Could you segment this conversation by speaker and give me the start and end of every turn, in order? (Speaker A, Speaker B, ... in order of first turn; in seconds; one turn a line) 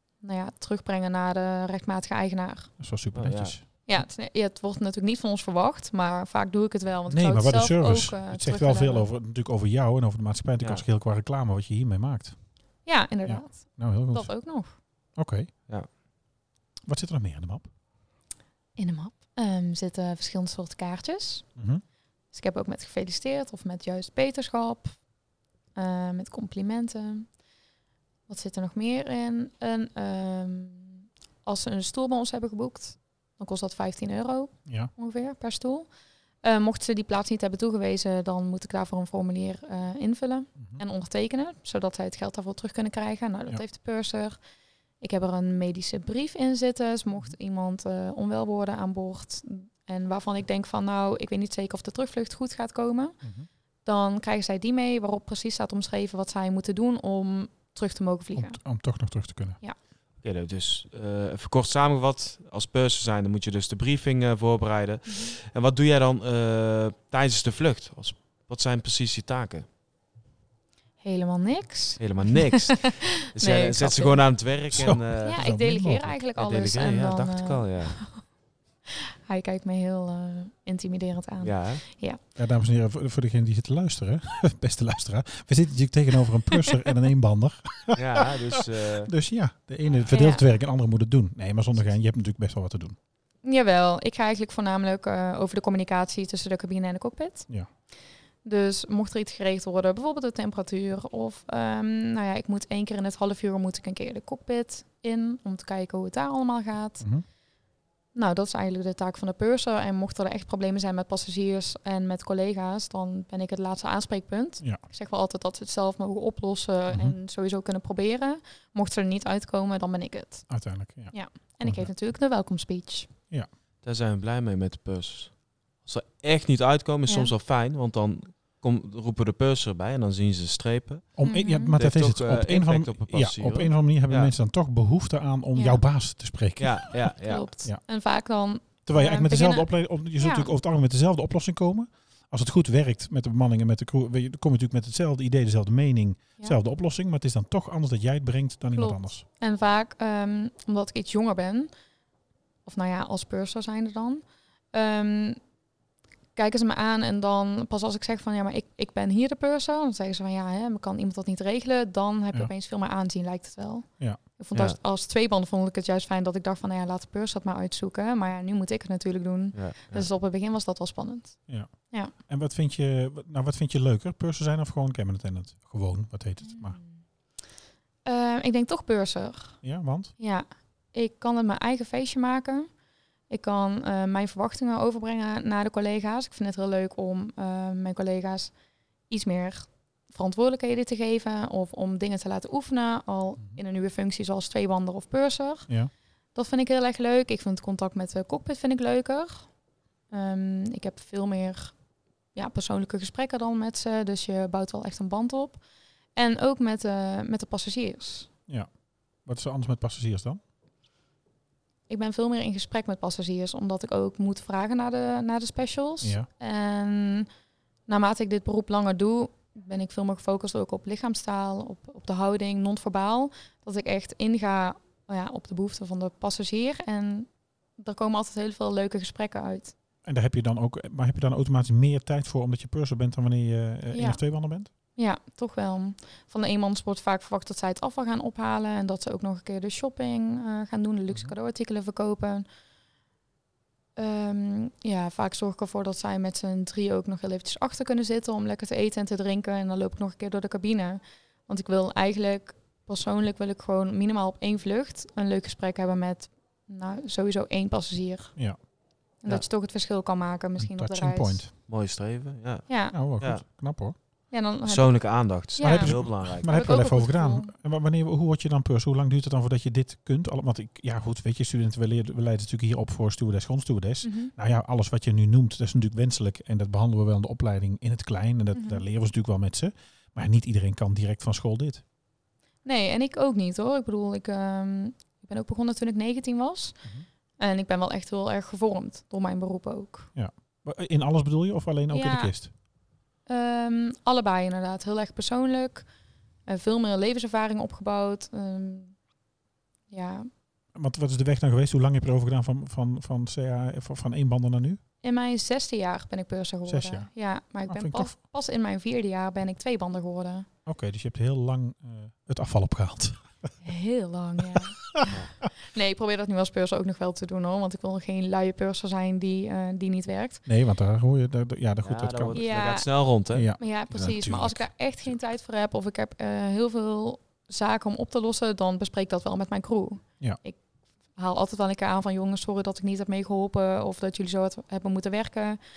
Speaker A: 0.2-2.7
Speaker B: 2.8-4.0
Speaker C: 3.1-3.6
Speaker A: 3.9-9.1
Speaker B: 7.1-12.4
Speaker A: 12.8-14.8
Speaker B: 13.2-14.4
Speaker B: 15.2-15.5
Speaker B: 16.9-17.7
Speaker A: 18.8-21.5
Speaker B: 21.6-21.8
Speaker A: 22.3-25.0
Speaker A: 25.7-27.3
Speaker A: 28.3-35.9
Speaker B: 34.7-34.9
Speaker A: 36.4-44.4
Speaker A: 45.0-53.2
Speaker B: 53.2-53.5
Speaker A: 53.9-58.6
Speaker B: 58.4-59.6
Speaker C: 60.2-69.6
Speaker A: 71.0-74.3
Speaker C: 72.0-75.4
Speaker B: 74.7-76.2
Speaker A: 75.2-78.2
Speaker C: 76.3-78.2
Speaker A: 79.3-82.2
Speaker C: 81.4-81.8
Speaker B: 82.3-93.0
Speaker C: 87.9-89.1
Speaker A: 90.1-90.5
Speaker A: 93.4-97.5
Speaker A: 98.4-107.1
Speaker A: 108.1-120.5
Speaker B: 116.9-117.2
Speaker B: 120.5-121.9
Speaker A: 121.1-123.1
Speaker C: 123.8-134.3
Speaker A: 127.1-127.3
Speaker B: 131.2-137.8
Speaker A: 131.2-131.8
Speaker A: 135.6-135.8
Speaker C: 136.6-137.5
Speaker A: 137.2-140.5
Speaker B: 138.8-149.2
Speaker A: 148.7-151.7
Speaker A: 152.6-155.4
Speaker A: 156.3-171.4
Speaker C: 169.5-170.1
Speaker B: 171.5-176.8
Speaker A: 176.4-177.0
Speaker A: 178.1-179.6
Speaker B: 179.6-180.1
Speaker A: 180.2-182.7
Speaker A: 183.3-188.5
Speaker A: 189.1-195.7
Speaker A: 196.3-199.5
Speaker A: 200.1-201.8
Speaker A: 202.3-205.6
Speaker A: 206.1-208.3
Speaker B: 209.2-210.4
Speaker A: 211.9-217.3
Speaker B: 216.0-216.3
Speaker A: 217.9-229.7
Speaker B: 230.0-234.7
Speaker A: 233.9-234.2
Speaker A: 234.9-242.4
Speaker A: 243.9-258.4
Speaker A: 259.2-261.4
Speaker B: 260.6-261.5
Speaker C: 261.7-263.4
Speaker A: 262.7-262.9
Speaker B: 262.9-263.9
Speaker A: 264.3-267.5
Speaker C: 264.7-266.4
Speaker B: 265.6-281.8
Speaker A: 274.0-274.3
Speaker A: 278.5-278.8
Speaker A: 282.6-286.8
Speaker A: 287.4-290.1
Speaker B: 290.1-292.5
Speaker A: 291.9-292.3
Speaker A: 293.3-295.9
Speaker A: 296.4-299.0
Speaker A: 299.9-300.3
Speaker B: 300.7-304.8
Speaker A: 305.0-310.5
Speaker B: 306.7-307.1
Speaker B: 307.7-308.1
Speaker B: 310.7-313.5
Speaker A: 313.6-320.4
Speaker C: 315.1-315.3
Speaker B: 320.4-322.4
Speaker C: 321.8-323.5
Speaker A: 322.3-323.0
Speaker B: 323.3-325.1
Speaker A: 323.6-330.6
Speaker A: 331.1-335.6